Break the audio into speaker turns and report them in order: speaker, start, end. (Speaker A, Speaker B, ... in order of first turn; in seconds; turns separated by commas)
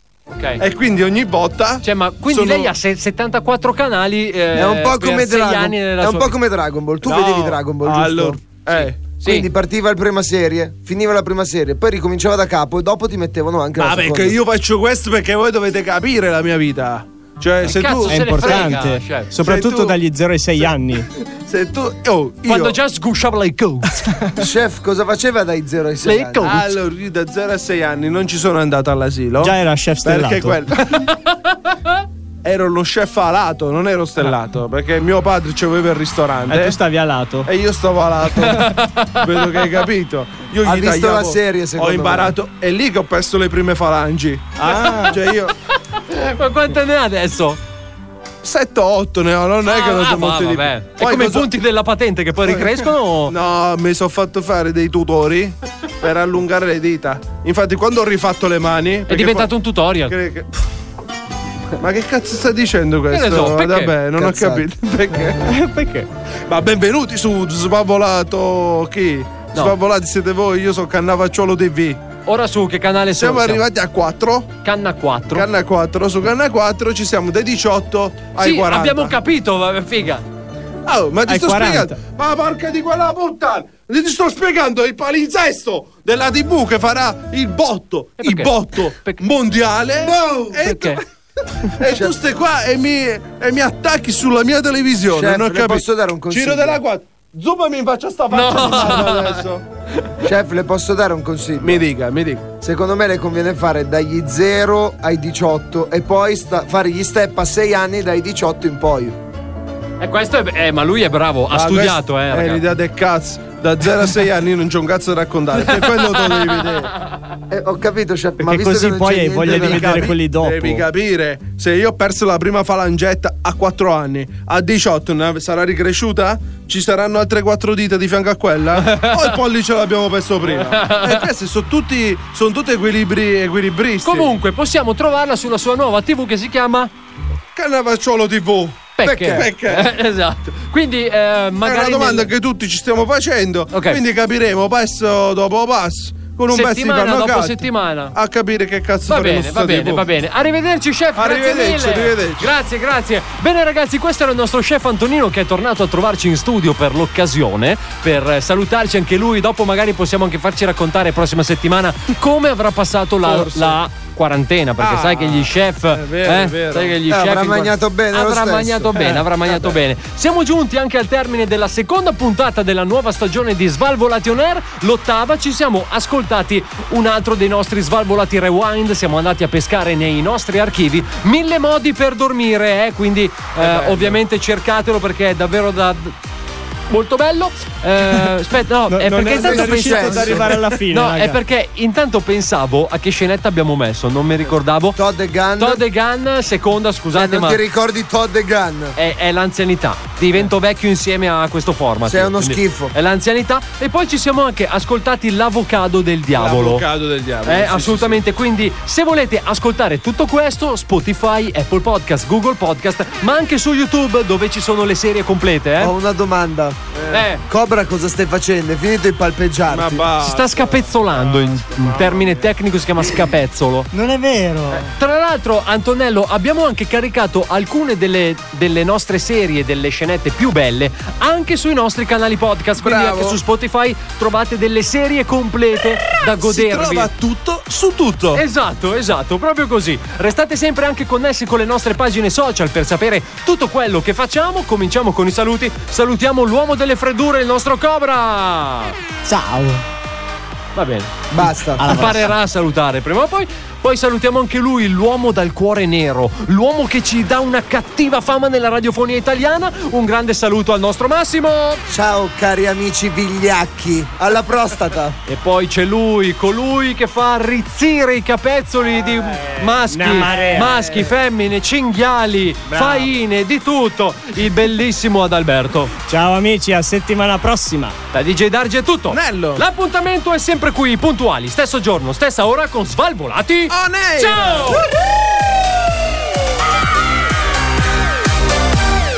Speaker A: 0.3-0.6, Speaker B: 0.6-2.7, Speaker A: 1.8-6.3, Speaker C: 4.5-8.4, Speaker B: 7.0-9.0, Speaker A: 8.7-9.4, Speaker C: 9.2-14.4, Speaker B: 13.8-20.0, Speaker A: 17.6-19.3, Speaker D: 18.1-21.1, Speaker B: 21.3-22.8, Speaker A: 22.4-24.0, Speaker C: 24.4-26.6, Speaker A: 26.0-26.7, Speaker B: 26.4-31.0, Speaker D: 29.4-30.6, Speaker A: 31.0-31.9, Speaker B: 32.4-36.8, Speaker D: 36.5-37.5, Speaker B: 37.5-45.5, Speaker A: 38.3-39.7, Speaker C: 40.6-42.3, Speaker D: 44.6-45.2, Speaker A: 44.6-45.1, Speaker A: 46.1-47.6, Speaker B: 48.4-51.5, Speaker A: 49.6-53.3, Speaker B: 52.5-59.5, Speaker A: 59.1-60.1, Speaker B: 60.0-60.5, Speaker B: 61.8-65.4, Speaker A: 63.1-63.9, Speaker C: 64.2-64.6, Speaker D: 65.4-66.1, Speaker B: 66.5-72.0, Speaker A: 72.2-73.6, Speaker B: 73.1-74.5, Speaker A: 74.6-75.5, Speaker B: 75.3-79.1, Speaker A: 78.4-80.2, Speaker B: 80.8-91.0, Speaker D: 81.2-82.0, Speaker A: 88.2-89.2, Speaker C: 90.0-90.6, Speaker A: 90.6-91.0, Speaker B: 91.7-99.6, Speaker C: 95.1-96.8, Speaker A: 98.3-99.4, Speaker C: 100.2-101.8, Speaker B: 101.6-102.5, Speaker C: 102.6-109.2, Speaker A: 110.0-112.6, Speaker B: 111.5-116.9, Speaker A: 115.7-116.7, Speaker C: 117.5-120.1, Speaker D: 118.4-120.8, Speaker B: 119.4-134.3, Speaker A: 128.8-129.3, Speaker A: 130.5-131.2, Speaker A: 134.0-136.9, Speaker B: 137.5-139.8, Speaker A: 139.0-142.3, Speaker C: 139.0-139.5, Speaker B: 141.6-150.1, Speaker A: 143.7-144.0, Speaker A: 146.5-148.1, Speaker A: 149.1-186.1, Speaker B: 151.2-152.5, Speaker B: 163.2-163.8, Speaker B: 164.8-167.0, Speaker C: 167.1-169.1, Speaker B: 169.0-169.8, Speaker B: 183.6-184.2, Speaker A: 186.9-195.0, Speaker D: 188.9-191.4, Speaker C: 189.2-190.5, Speaker C: 194.9-195.8, Speaker A: 195.6-197.6, Speaker C: 197.1-198.9, Speaker A: 198.9-206.8, Speaker C: 202.0-202.9, Speaker B: 206.4-208.2, Speaker A: 207.4-215.9, Speaker C: 215.8-216.8, Speaker B: 216.9-217.2, Speaker A: 217.1-217.4, Speaker C: 217.5-220.1, Speaker B: 219.7-222.4, Speaker A: 220.2-223.9, Speaker E: 223.9-224.9, Speaker A: 224.7-237.1, Speaker B: 232.8-233.4, Speaker B: 236.4-238.4, Speaker A: 238.3-249.0, Speaker E: 249.2-249.8, Speaker A: 250.7-261.8, Speaker C: 251.3-252.2, Speaker E: 251.8-252.3, Speaker C: 261.9-265.1, Speaker A: 265.2-275.9, Speaker D: 269.6-270.9, Speaker B: 270.0-270.8, Speaker D: 272.7-273.1, Speaker D: 276.1-278.0, Speaker A: 278.1-284.8, Speaker B: 279.1-279.6, Speaker B: 283.7-284.8